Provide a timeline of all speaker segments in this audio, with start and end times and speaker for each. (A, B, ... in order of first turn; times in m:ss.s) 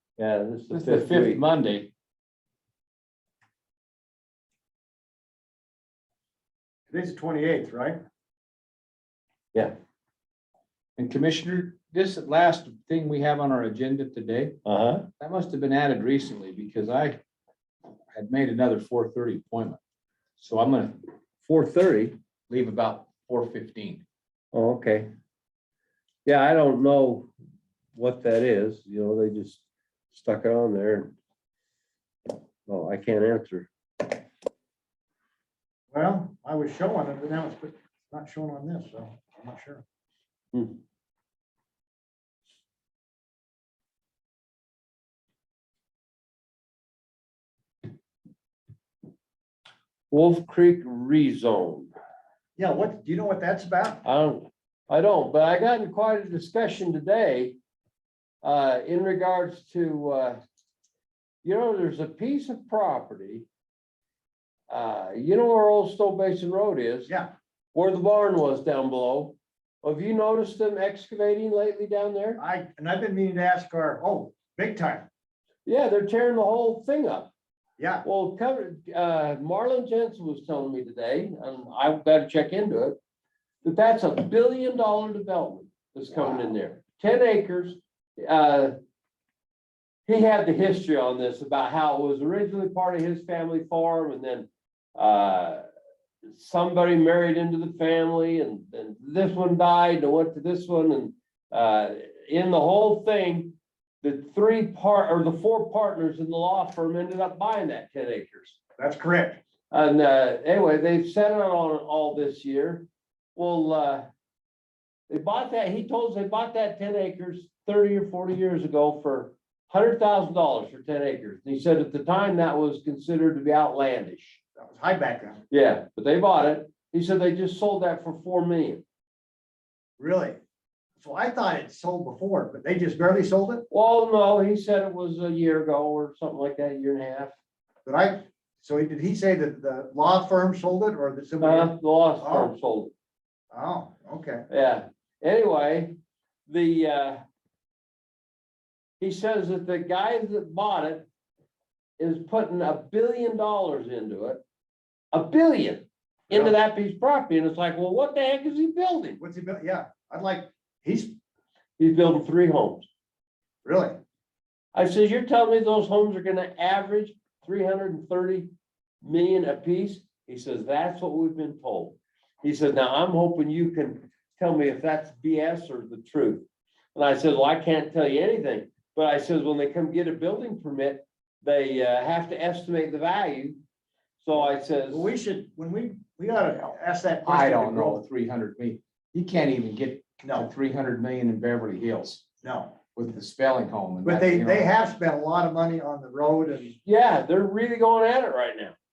0:00.2-0:01.4 A
0:00.7-0:01.9 B
0:06.9-0:08.0 C
0:11.0-0:14.6 B
0:14.7-0:15.1 A
0:15.2-0:17.2 B
0:18.1-0:19.8 B
0:20.4-0:21.0 B
0:21.4-0:22.2 A
0:22.5-0:24.0 B
0:24.5-0:25.1 A
0:26.3-0:27.3 A
0:28.0-0:31.1 A
0:32.7-0:33.7 A
0:35.9-0:39.8 C
0:50.1-0:51.9 A
0:52.6-0:54.0 C
0:54.0-0:57.6 A
0:58.4-1:00.4 A
1:01.4-1:03.5 A
1:04.7-1:07.1 A
1:07.7-1:12.4 A
1:12.4-1:15.1 C
1:15.7-1:17.3 A
1:17.8-1:18.0 C
1:18.0-1:23.0 A
1:23.6-1:28.7 A
1:26.1-1:26.5 C
1:30.1-1:35.7 A
1:36.3-1:48.6 A
1:48.8-1:49.4 C
1:49.7-1:54.0 A
1:55.1-2:04.4 A
2:04.6-2:05.4 C
2:05.5-2:08.8 A
2:10.0-2:10.4 C
2:11.0-2:13.6 C
2:13.7-2:17.3 A
2:17.8-2:22.5 C
2:21.4-2:22.9 A
2:23.5-2:24.5 C
2:24.5-2:26.0 A
2:26.5-2:27.2 A
2:29.0-2:31.1 A
2:32.0-2:34.4 A
2:35.1-2:39.2 A
2:36.3-2:36.6 C
2:39.2-2:41.2 C
2:41.8-2:42.9 A
2:43.6-2:44.0 C
2:44.7-2:48.5 A
2:49.0-3:03.6 A
3:04.2-3:05.1 A
3:04.9-3:08.0 C
3:07.2-3:12.2 B
3:10.2-3:10.5 C
3:12.4-3:12.8 C
3:12.9-3:14.7 B
3:14.0-3:16.8 C
3:16.8-3:18.8 A